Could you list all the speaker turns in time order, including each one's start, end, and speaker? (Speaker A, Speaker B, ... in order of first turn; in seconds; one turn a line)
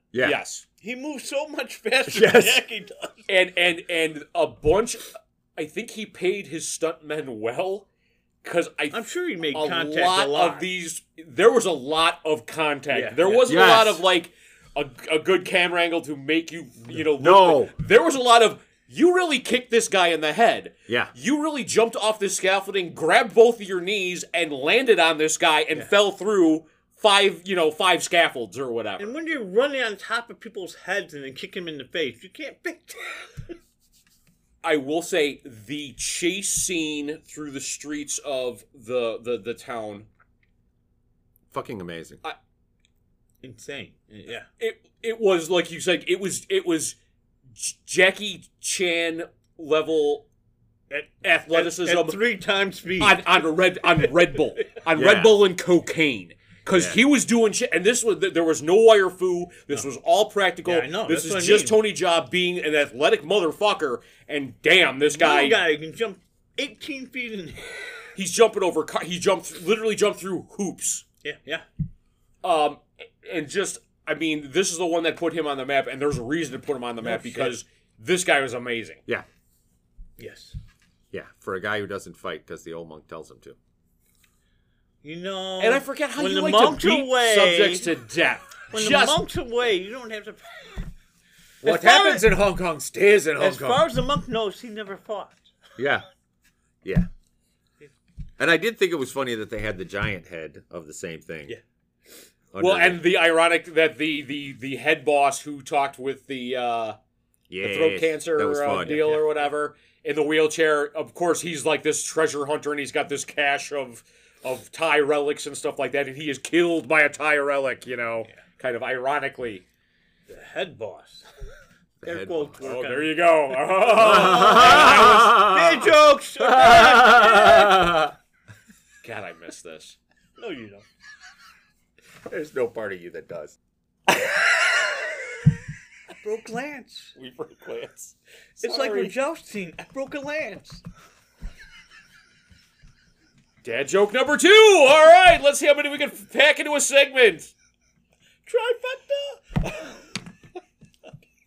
Speaker A: 0.1-0.4
Speaker B: 0.2-0.6
Speaker C: 0.8-3.3
Speaker A: 2.1-2.6
Speaker B: 3.3-7.9
Speaker B: 8.4-29.1
Speaker C: 8.9-10.7
Speaker C: 12.9-13.5
Speaker A: 13.4-14.0
Speaker A: 17.2-17.7
Speaker A: 20.9-21.1
Speaker C: 29.0-33.5
Speaker B: 34.6-40.1
Speaker A: 41.5-42.2
Speaker C: 43.4-44.5
Speaker B: 44.6-47.0
Speaker B: 47.5-50.3
Speaker C: 50.9-53.4
Speaker B: 51.2-52.2
Speaker B: 53.0-65.6
Speaker C: 53.9-54.4
Speaker A: 54.9-55.4
Speaker C: 60.6-61.8
Speaker C: 65.1-67.9
Speaker B: 68.2-71.0
Speaker C: 71.2-71.7
Speaker B: 72.4-79.0
Speaker C: 77.0-77.6
Speaker C: 80.2-80.6
Speaker A: 81.1-83.6
Speaker C: 85.0-87.9
Speaker B: 85.6-89.2
Speaker C: 88.7-90.9
Speaker A: 91.6-93.9
Speaker C: 91.6-92.3
Speaker C: 93.4-95.5
Speaker A: 95.8-96.0
Speaker A: 96.8-97.1
Speaker A: 98.4-101.5
Speaker A: 102.5-103.0
Speaker B: 102.6-107.0
Speaker A: 107.5-109.2
Speaker B: 107.6-119.6
Speaker C: 108.8-109.3
Speaker C: 120.3-121.3
Speaker A: 122.0-122.7
Speaker C: 122.0-127.9
Speaker B: 122.6-125.9
Speaker A: 124.0-125.3
Speaker B: 126.4-128.1
Speaker A: 127.2-127.9
Speaker B: 129.0-130.0
Speaker C: 130.4-130.9
Speaker A: 132.3-133.6
Speaker A: 134.1-134.6
Speaker C: 136.2-137.2
Speaker A: 137.2-139.1
Speaker C: 138.6-140.8
Speaker B: 143.6-147.5
Speaker C: 148.4-150.0